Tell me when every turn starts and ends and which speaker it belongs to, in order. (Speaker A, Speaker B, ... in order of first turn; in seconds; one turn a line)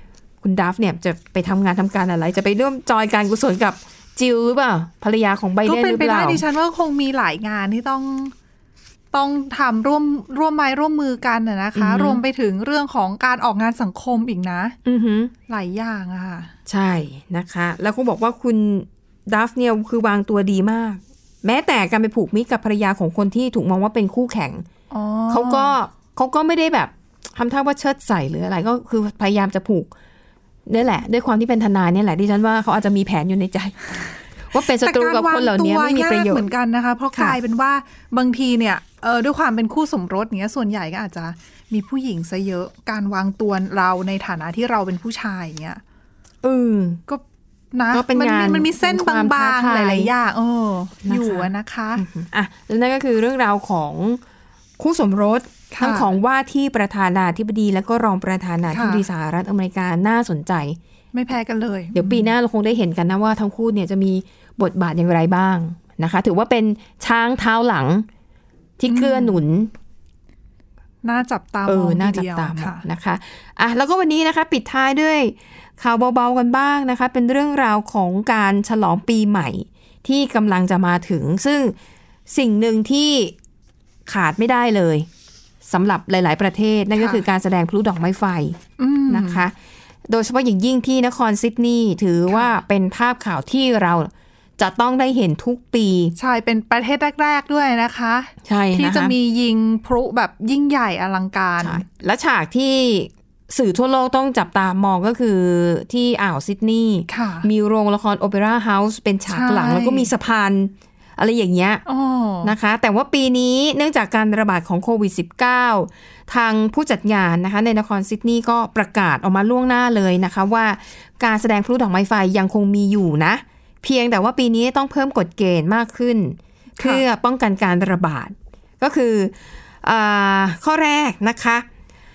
Speaker A: 0.4-6.4
Speaker B: 5.7-8.3
Speaker B: 9.1-14.8
Speaker A: 11.8-12.2
Speaker A: 14.8-15.3
Speaker B: 15.5-16.5
Speaker A: 16.7-24.7
Speaker B: 24.9-25.7
Speaker A: 25.3-29.9
Speaker A: 30.7-34.0
Speaker A: 34.5-36.5
Speaker B: 34.8-45.8
Speaker A: 46.4-47.0
Speaker B: 47.1-52.0
Speaker A: 47.9-50.1
Speaker A: 51.0-54.2
Speaker A: 54.8-60.8
Speaker B: 55.7-56.1
Speaker B: 58.7-59.0
Speaker B: 61.1-62.3
Speaker A: 62.0-68.1
Speaker A: 68.8-69.7
Speaker B: 68.9-69.4
Speaker B: 71.0-72.8
Speaker A: 71.7-81.8
Speaker A: 82.3-83.3
Speaker A: 84.1-85.1
Speaker A: 85.7-89.5
Speaker B: 87.0-87.2
Speaker B: 88.8-89.5
Speaker A: 90.1-96.2
Speaker B: 96.2-101.8
Speaker A: 98.5-99.1
Speaker A: 101.6-111.8
Speaker B: 107.1-107.5
Speaker B: 109.3-110.1
Speaker B: 111.9-112.5
Speaker A: 112.4-131.7
Speaker B: 126.8-127.0